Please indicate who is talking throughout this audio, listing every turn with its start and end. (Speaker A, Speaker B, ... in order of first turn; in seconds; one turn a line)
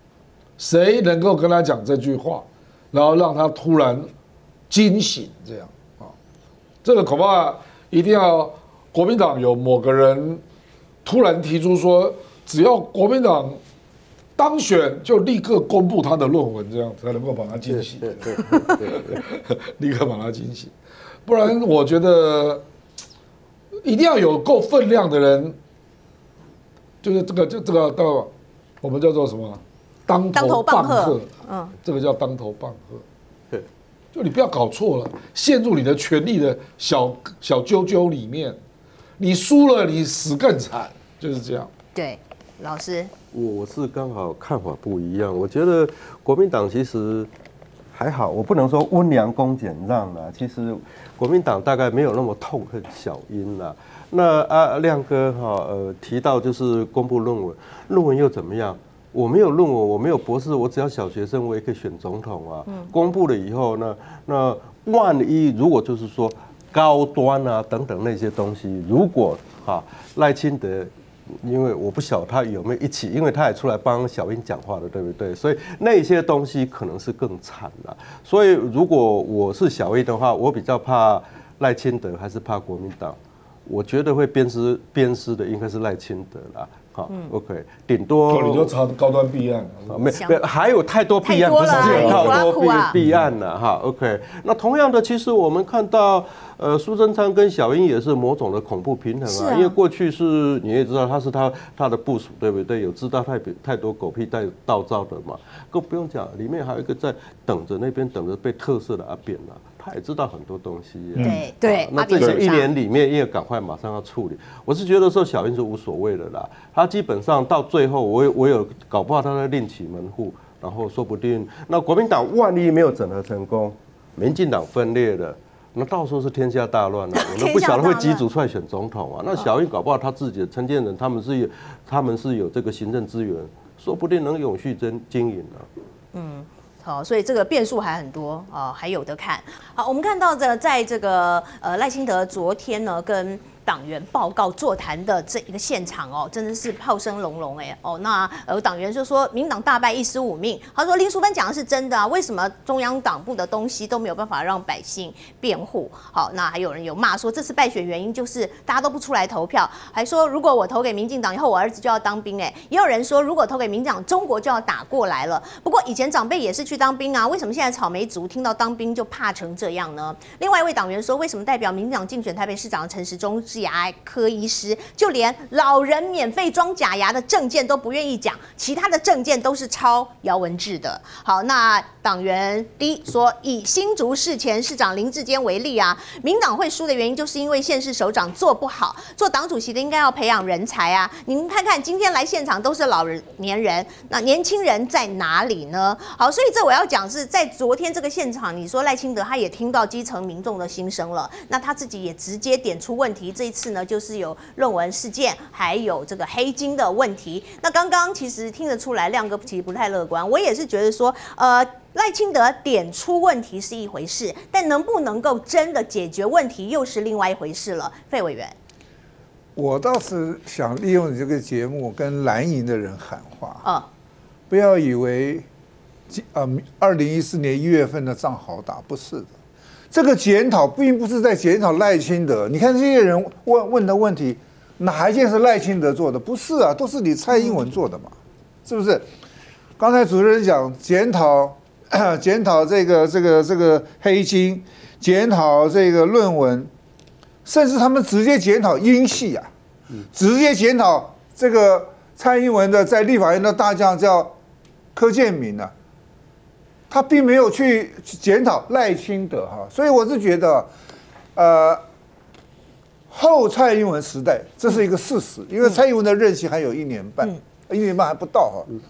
Speaker A: 0.6-4.1
Speaker A: 4.7-6.1
Speaker A: 6.8-10.4
Speaker A: 11.0-13.6
Speaker A: 14.3-20.7
Speaker B: 18.2-19.0
Speaker A: 21.3-22.6
Speaker A: 23.8-25.6
Speaker A: 27.0-28.3
Speaker A: 28.8-31.3
Speaker C: 30.3-31.7
Speaker A: 31.8-33.0
Speaker A: 34.1-38.6
Speaker A: 39.2-41.7
Speaker C: 41.9-43.1
Speaker B: 43.3-47.3
Speaker B: 47.9-88.7
Speaker A: 88.3-90.1
Speaker B: 89.9-135.7
Speaker C: 90.1-90.4
Speaker C: 91.2-93.0
Speaker A: 91.6-93.2
Speaker C: 99.2-99.7
Speaker C: 111.2-112.7
Speaker C: 127.1-128.2
Speaker C: 136.1-218.6
Speaker D: 219.6-223.6
Speaker D: 224.5-225.4
Speaker D: 226.1-229.3
Speaker D: 229.9-238.1
Speaker C: 237.3-237.6
Speaker D: 238.7-239.0
Speaker D: 239.8-246.7
Speaker D: 247.4-249.5
Speaker D: 250.1-254.3
Speaker D: 254.9-255.7
Speaker D: 256.9-260.7
Speaker D: 261.3-261.8
Speaker D: 263.1-268.7